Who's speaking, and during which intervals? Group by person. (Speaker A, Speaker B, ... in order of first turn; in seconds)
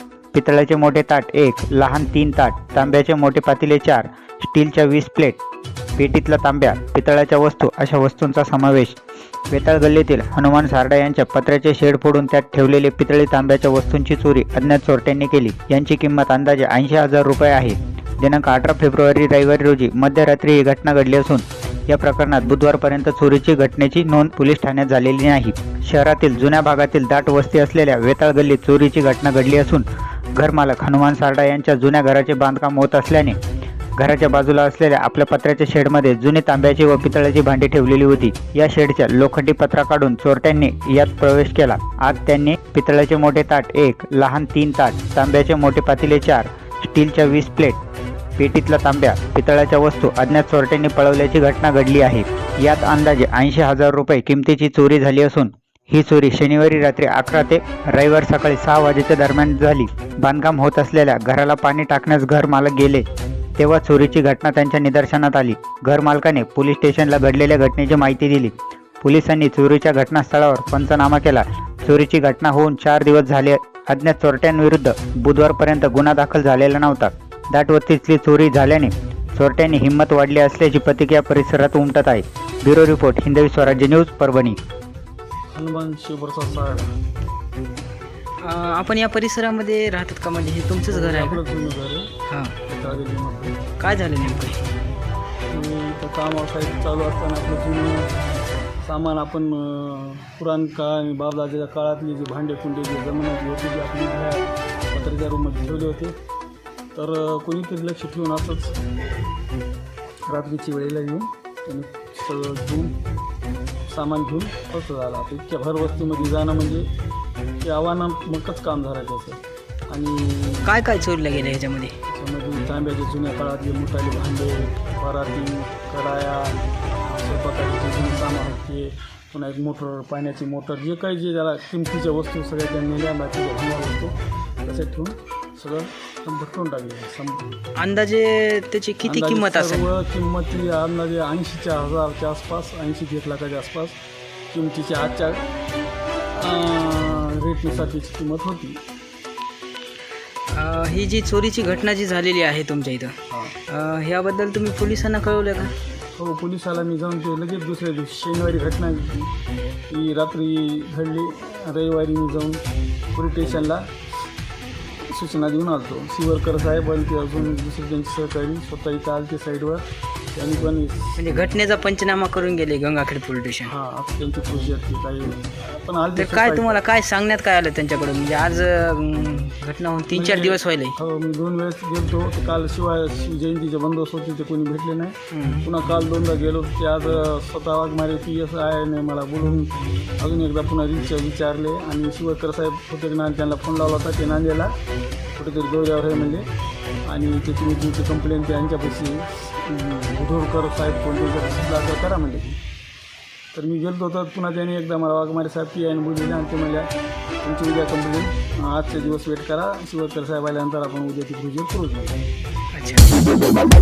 Speaker A: 0.3-5.4, 6.0-8.9, 9.5-33.4, 34.0-47.8, 48.4-63.0, 63.6-84.6
Speaker B: 85.5-86.9, 90.9-92.1, 92.6-93.6, 95.5-98.1, 98.8-106.1, 106.9-108.8, 110.3-113.0, 113.9-116.9, 117.6-120.7, 122.0-137.6, 139.0-144.0, 144.5-145.4, 146.3-148.8, 153.3-153.6, 156.1-159.3, 159.9-162.6, 163.1-163.9, 165.1-171.1, 173.6-176.8, 180.1-194.8, 195.3-196.5, 197.0-202.6, 203.5-206.9, 207.4-212.2
Speaker C: 88.4-91.4, 92.3-92.5, 93.8-94.6, 120.6-121.9, 137.8-139.9, 150.5-153.2, 153.7-155.7, 171.2-173.7, 176.2-181.0, 185.3-185.6, 212.7-213.1